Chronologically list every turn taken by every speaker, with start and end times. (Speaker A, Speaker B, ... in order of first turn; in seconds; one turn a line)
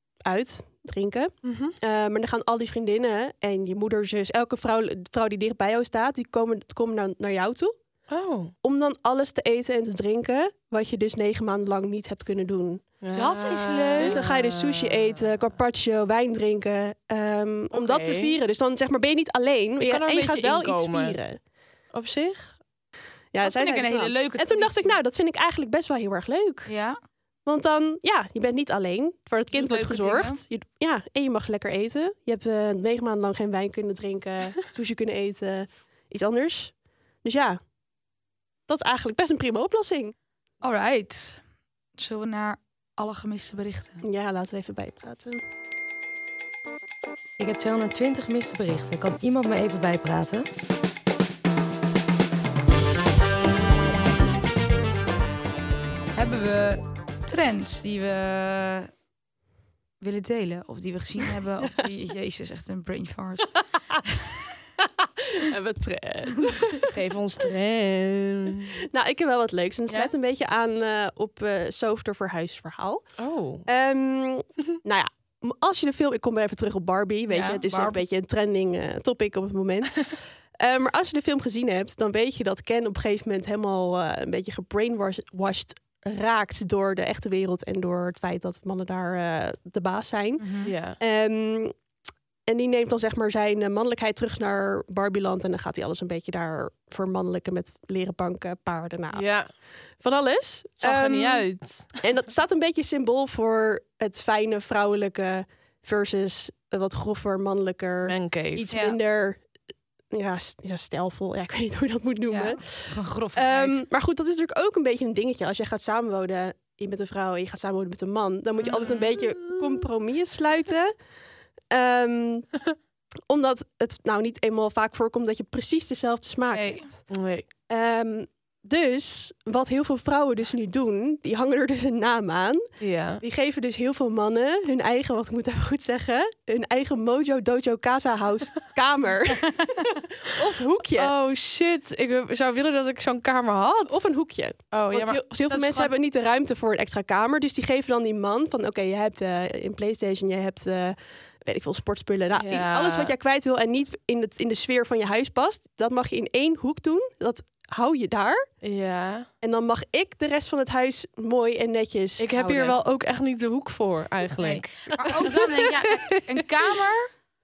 Speaker A: 0.2-7.8
Speaker B: 1.4-1.8
Speaker B: 8.1-8.5
Speaker A: 8.6-12.8
Speaker B: 13.0-15.6
Speaker C: 13.1-14.2
Speaker A: 14.0-21.4
Speaker B: 17.7-18.4
Speaker B: 19.9-21.2
Speaker B: 21.9-22.6
Speaker A: 23.3-26.7
Speaker C: 23.4-25.0
Speaker C: 26.7-27.0
Speaker A: 27.5-37.6
Speaker C: 29.5-30.4
Speaker A: 38.7-40.1
Speaker C: 40.6-41.4
Speaker C: 42.0-44.0
Speaker A: 44.0-45.4
Speaker D: 47.4-50.5
Speaker C: 56.1-58.9
Speaker C: 60.0-63.5
Speaker A: 64.8-66.9
Speaker B: 66.9-68.8
Speaker A: 68.9-73.1
Speaker B: 73.2-73.7
Speaker A: 73.7-91.7
Speaker C: 77.3-78.0
Speaker C: 90.4-90.7
Speaker B: 90.6-91.0
Speaker A: 92.5-99.4
Speaker B: 99.1-99.5
Speaker A: 100.0-101.5
Speaker B: 100.8-102.0
Speaker A: 102.0-109.4
Speaker B: 108.0-108.7
Speaker C: 108.7-109.0
Speaker A: 110.1-120.9
Speaker C: 112.3-113.8
Speaker C: 118.7-119.1
Speaker B: 118.8-119.5
Speaker A: 121.7-122.5
Speaker A: 123.3-127.2
Speaker C: 126.5-126.9
Speaker B: 127.1-127.5
Speaker A: 127.7-132.7
Speaker B: 132.8-133.2
Speaker A: 133.2-141.1
Speaker B: 141.0-144.2
Speaker A: 143.9-158.4
Speaker B: 144.7-145.2
Speaker C: 145.5-145.9
Speaker B: 152.3-153.1
Speaker B: 158.6-159.3
Speaker A: 159.4-162.8
Speaker B: 162.2-166.4
Speaker C: 164.4-167.1